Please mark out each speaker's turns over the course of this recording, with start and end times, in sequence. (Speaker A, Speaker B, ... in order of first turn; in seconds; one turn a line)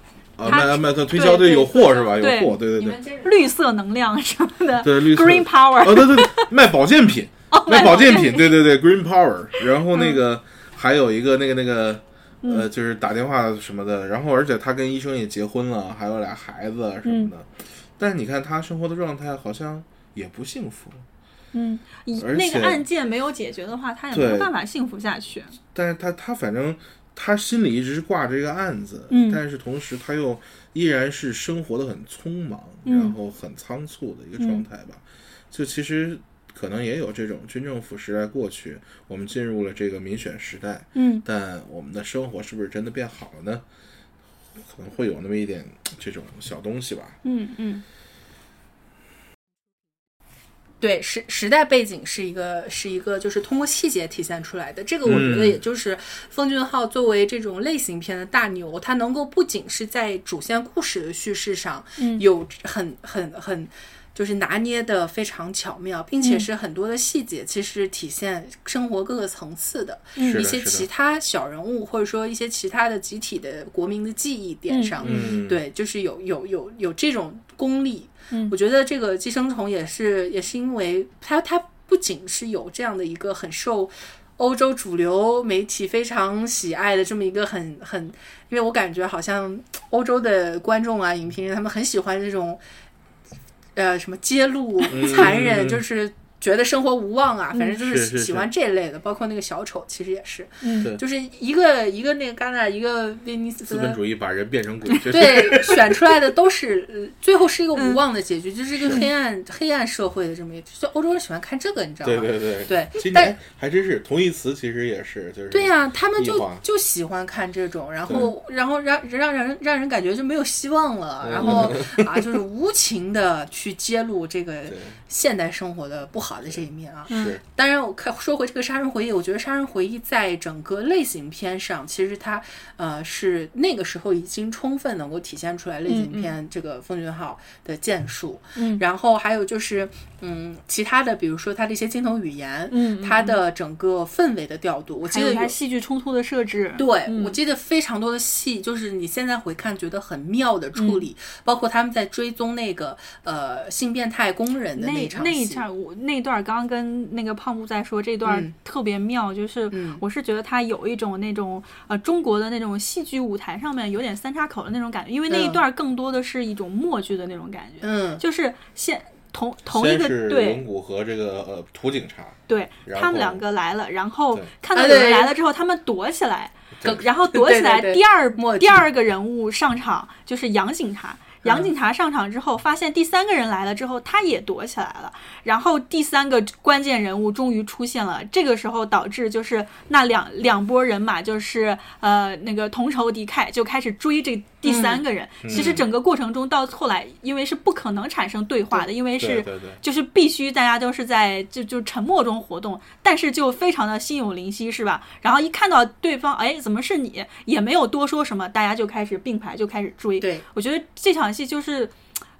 Speaker A: 0.4-3.0
Speaker B: 0.4-6.5
Speaker C: 2.7-3.5
Speaker A: 4.8-21.0
Speaker B: 7.5-8.6
Speaker B: 9.9-10.2
Speaker B: 17.1-17.3
Speaker B: 21.5-25.6
Speaker A: 22.2-22.8
Speaker A: 24.1-24.5
Speaker A: 25.7-43.6
Speaker B: 29.1-29.4
Speaker B: 32.9-33.2
Speaker B: 34.4-34.6
Speaker B: 41.0-41.2
Speaker A: 44.6-47.2
Speaker B: 47.2-47.8
Speaker C: 50.8-92.6
Speaker A: 55.0-55.6
Speaker B: 62.0-62.2
Speaker B: 66.2-66.5
Speaker B: 70.2-70.5
Speaker A: 70.2-70.9
Speaker B: 74.7-75.4
Speaker A: 75.0-75.6
Speaker C: 93.8-104.0
Speaker A: 94.9-95.8
Speaker A: 97.7-98.5
Speaker B: 100.6-100.9
Speaker A: 103.7-106.0
Speaker B: 105.0-105.6
Speaker C: 105.1-113.4
Speaker B: 107.8-108.0
Speaker A: 108.8-109.0
Speaker A: 112.0-116.6
Speaker C: 115.5-145.6
Speaker A: 121.2-122.3
Speaker A: 124.7-125.0
Speaker A: 126.5-127.4
Speaker B: 127.1-127.4
Speaker B: 135.9-136.3
Speaker B: 138.6-138.8
Speaker B: 142.7-143.4
Speaker B: 145.1-147.4
Speaker C: 146.8-155.6
Speaker B: 150.8-151.1
Speaker B: 154.8-170.6
Speaker C: 158.2-158.5
Speaker C: 159.7-160.0
Speaker C: 165.3-165.6
Speaker C: 167.8-168.2
Speaker A: 169.7-173.4
Speaker B: 172.5-211.9
Speaker C: 174.7-175.3
Speaker C: 176.8-178.9
Speaker C: 181.4-181.7
Speaker C: 194.7-195.8
Speaker A: 195.4-195.8
Speaker A: 199.2-199.8
Speaker C: 210.2-210.4